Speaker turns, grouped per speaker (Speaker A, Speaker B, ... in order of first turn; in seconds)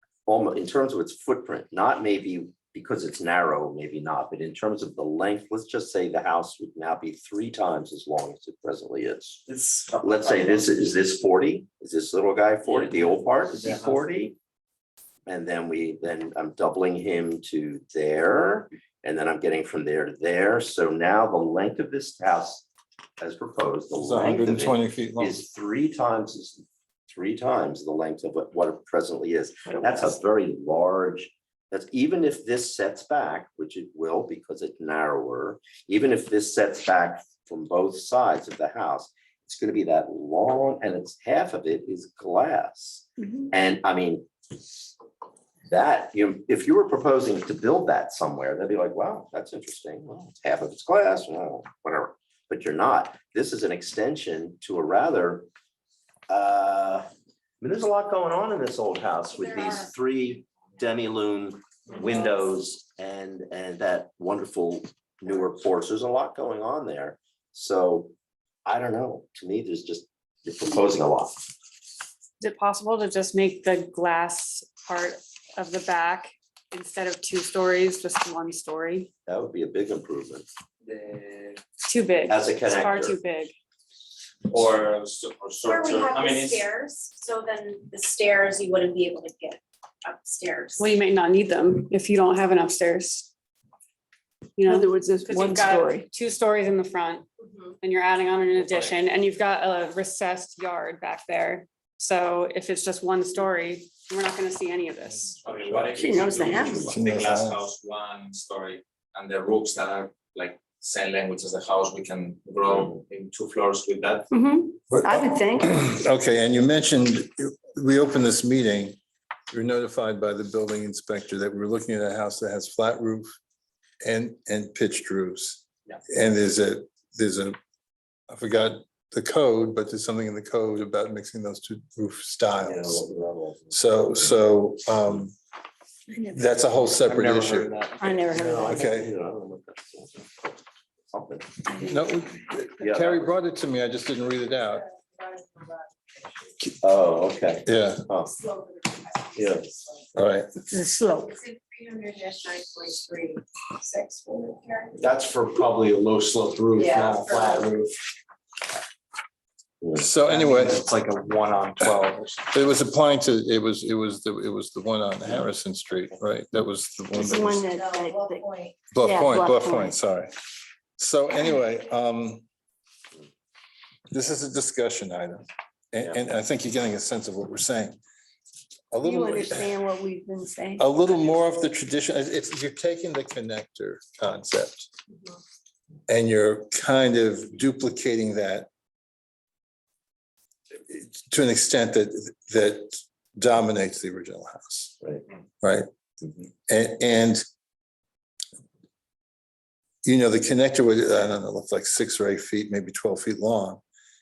Speaker A: 0.2-9.4, 9.9-14.4, 15.2-22.7, 23.2-44.3, 45.7-55.5, 56.3-57.1, 57.6-68.1, 68.7-71.3, 79.3-80.5, 82.3-83.2, 132.6-133.8, 138.3-141.6, 142.8-143.3, 146.8-148.3, 149.4-149.7
Speaker B: 24.0-25.4, 106.4-107.6, 114.9-119.0, 119.5-123.3, 124.0-127.6, 128.3-133.1, 133.7-135.3, 136.3-137.7, 138.6-139.1, 141.8-144.8, 147.7-148.1, 150.2-150.5, 159.9-160.9, 162.5-167.7, 168.9-170.3, 171.0-172.4, 174.1-178.0, 178.9-179.8, 180.8-184.9, 186.1-188.7, 190.9-195.0, 195.6-195.9, 196.7-197.4, 200.0-203.8
Speaker C: 59.3-59.9, 85.6-90.9, 97.4-97.8, 144.9-145.9, 148.2-150.1, 151.2-154.9, 156.8-157.7, 167.7-168.8
Speaker D: 72.4-79.1, 81.8-83.5, 90.8-93.3, 94.6-97.3, 97.8-105.3
Speaker E: 80.9-81.5, 84.5-86.6, 98.6-98.9, 105.2-114.3
Speaker F: 94.7-96.0, 106.0-106.9, 114.3-115.7, 138.0-138.8, 150.7-151.3, 167.2-168.4, 169.0-169.9, 179.0-180.8
Speaker G: 105.7-106.5, 137.1-138.2, 155.0-157.9, 160.3-162.4